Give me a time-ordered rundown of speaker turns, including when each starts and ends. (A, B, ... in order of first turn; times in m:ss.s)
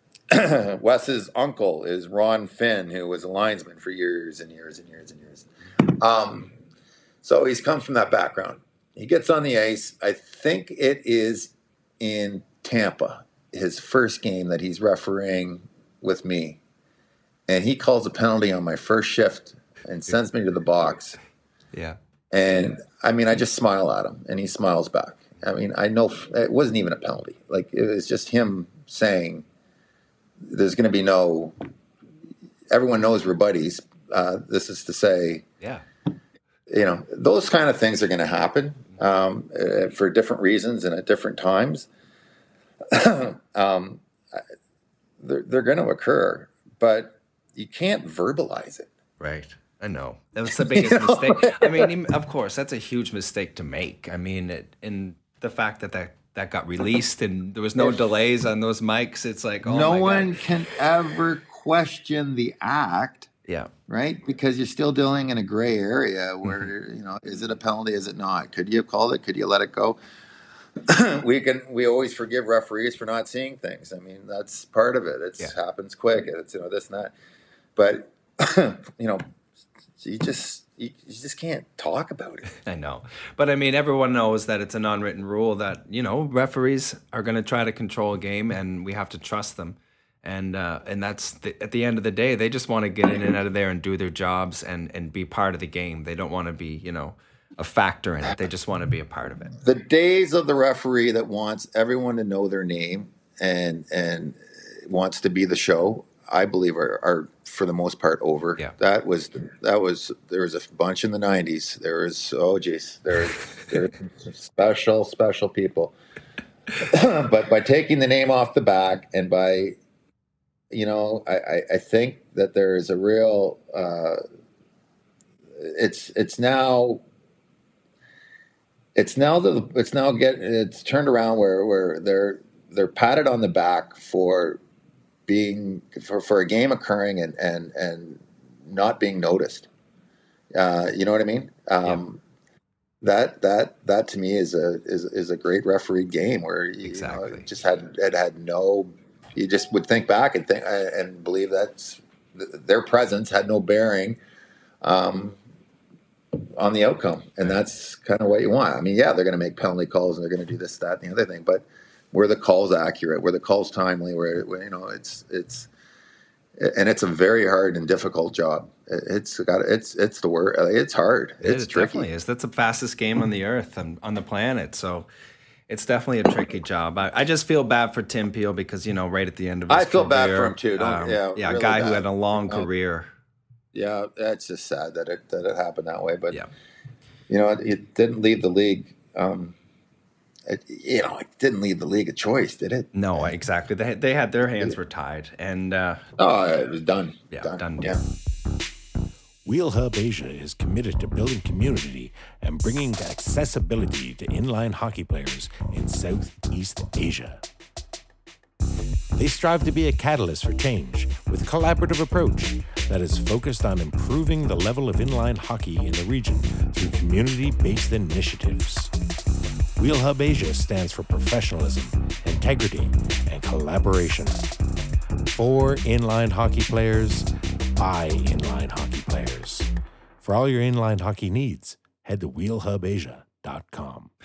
0:00.3-0:06.5 A
0:07.2-0:16.6 A
0:17.5-0:21.2 A
0:22.3-0:29.4 A
0:30.4-0:31.6 A
0:32.7-0:35.5 A
0:36.7-0:41.9 A
0:42.9-0:44.4 A
0:45.2-0:48.9 A
0:49.2-1:00.4 B
0:50.5-0:51.9 A
0:59.6-1:03.3 A
1:03.9-1:10.0 A
1:10.8-1:17.1 A
1:17.8-1:19.2 A
1:20.0-1:22.5 A
1:22.6-1:39.6 B
1:39.6-1:55.9 A
1:56.8-1:59.8 A
2:00.7-2:04.2 A
2:05.6-2:07.0 A
2:08.9-2:14.6 A
2:15.3-2:19.7 A
2:20.5-2:22.2 A
2:23.0-2:34.2 A
2:26.8-2:27.5 B
2:34.8-2:35.4 A
2:36.4-2:45.7 A
2:46.6-2:52.1 A
2:51.4-2:55.1 B
2:55.7-3:03.1 B
2:59.7-3:02.7 A
3:03.7-3:06.4 A
3:07.3-3:09.6 A
3:10.4-3:13.4 A
3:12.9-3:16.0 B
3:16.2-3:18.0 A
3:17.3-3:18.0 B
3:19.4-3:27.4 C
3:29.2-3:38.9 C
3:39.8-3:44.5 C
3:45.3-3:49.7 C
3:50.2-3:54.1 C